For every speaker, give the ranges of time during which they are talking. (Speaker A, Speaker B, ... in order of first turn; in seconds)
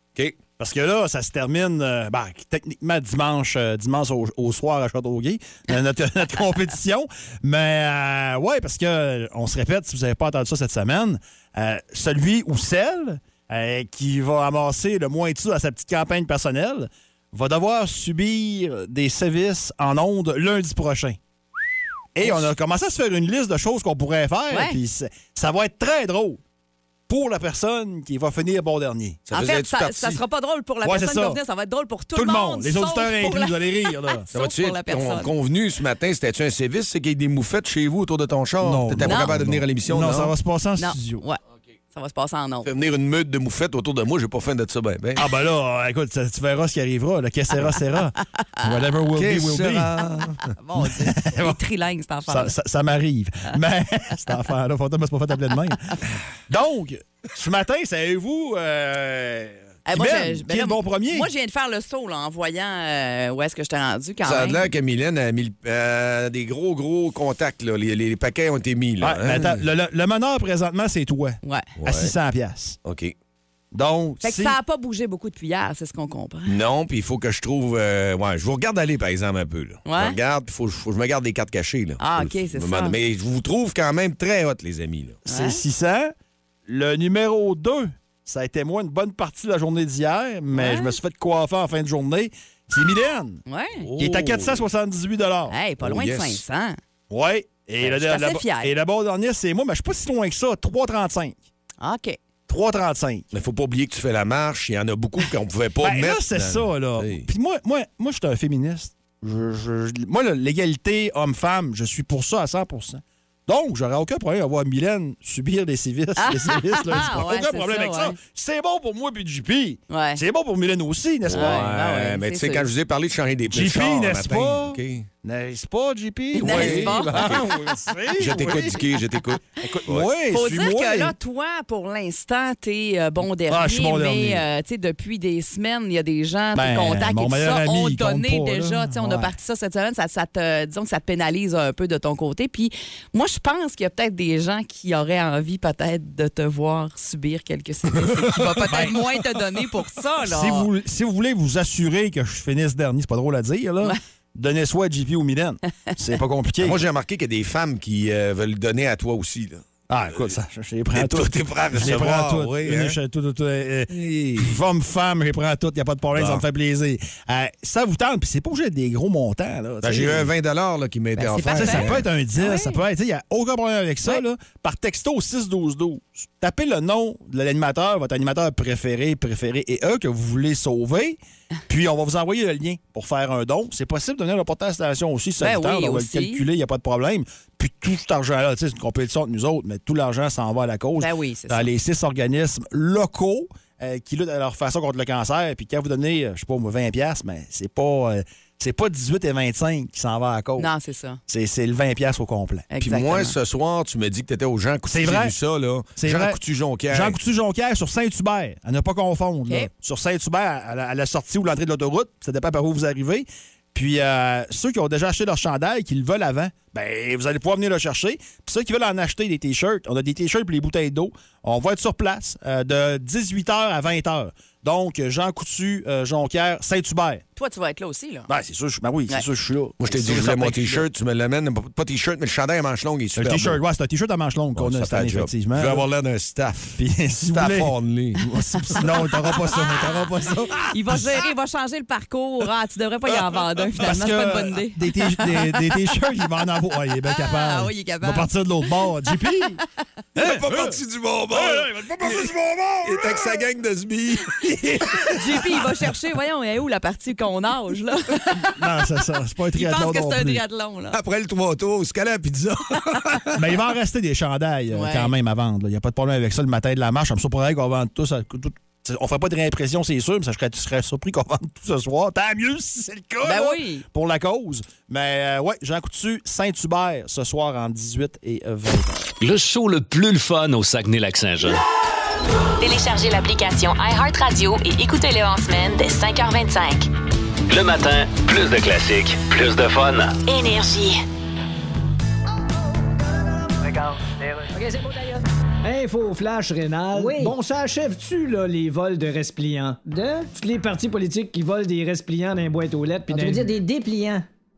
Speaker A: 0.6-21.2, 22.1-26.4, 27.1-29.2, 30.8-31.4, 32.1-34.3, 38.6-41.2, 45.2-50.0, 50.8-51.6, 52.3-55.9, 56.5-61.3, 69.0-72.8, 73.7-74.6, 85.2-86.1, 86.7-93.4, 94.0-95.5, 97.1-101.4, 102.5-103.3, 105.8-121.7, 123.5-128.9, 129.6-131.1, 133.5-134.4, 136.5-139.3, 148.7-149.0, 150.2-156.8, 159.9-170.3, 171.5-200.7, 201.3-202.7, 204.8-205.3, 205.9-227.2, 228.3-230.9, 233.1-235.9, 236.8-241.2, 243.8-249.6, 250.2-250.8, 251.3-253.4, 258.5-260.4, 263.3-279.1
Speaker B: 24.5-24.8, 29.3-35.3, 39.0-39.3, 40.8-41.4, 41.9-42.7, 50.5-52.5, 59.9-64.7, 71.4-71.7, 74.2-76.5, 79.8-80.2, 82.0-83.0, 85.2-85.6, 90.5-91.0, 93.5-93.9, 95.5-96.8, 97.8-98.7, 101.8-102.2, 116.2-118.2, 119.9-120.2, 121.3-122.7, 126.3-127.5, 130.3-150.7, 171.2-172.8, 185.4-186.4, 191.0-191.7, 200.6-201.2, 202.7-203.3, 227.4-228.3, 239.5-240.0, 240.7-246.0, 247.0-248.9, 255.1-258.6, 259.5-261.0, 264.7-265.1, 273.2-273.8
Speaker C: 29.3-30.2, 34.3-40.3, 42.6-45.2, 49.1-50.5, 64.2-69.6, 71.8-72.1, 72.8-73.1, 76.5-85.2, 93.8-94.7, 95.8-96.4, 103.3-107.3, 121.2-125.1, 126.4-127.5, 128.2-130.1, 148.4-148.9, 156.6-159.6, 160.9-163.0, 163.9-164.6, 166.1-166.4, 169.8-172.0, 202.8-207.2, 229.8-233.6, 234.6-238.2, 250.2-255.6, 260.9-263.4
Speaker D: 279.2-281.6, 287.5-290.2
Speaker E: 282.6-286.9, 290.2-291.0
Speaker F: 294.5-295.2, 296.9-297.4, 299.9-300.3, 303.1-304.2
Speaker G: 295.6-299.8, 300.3-303.5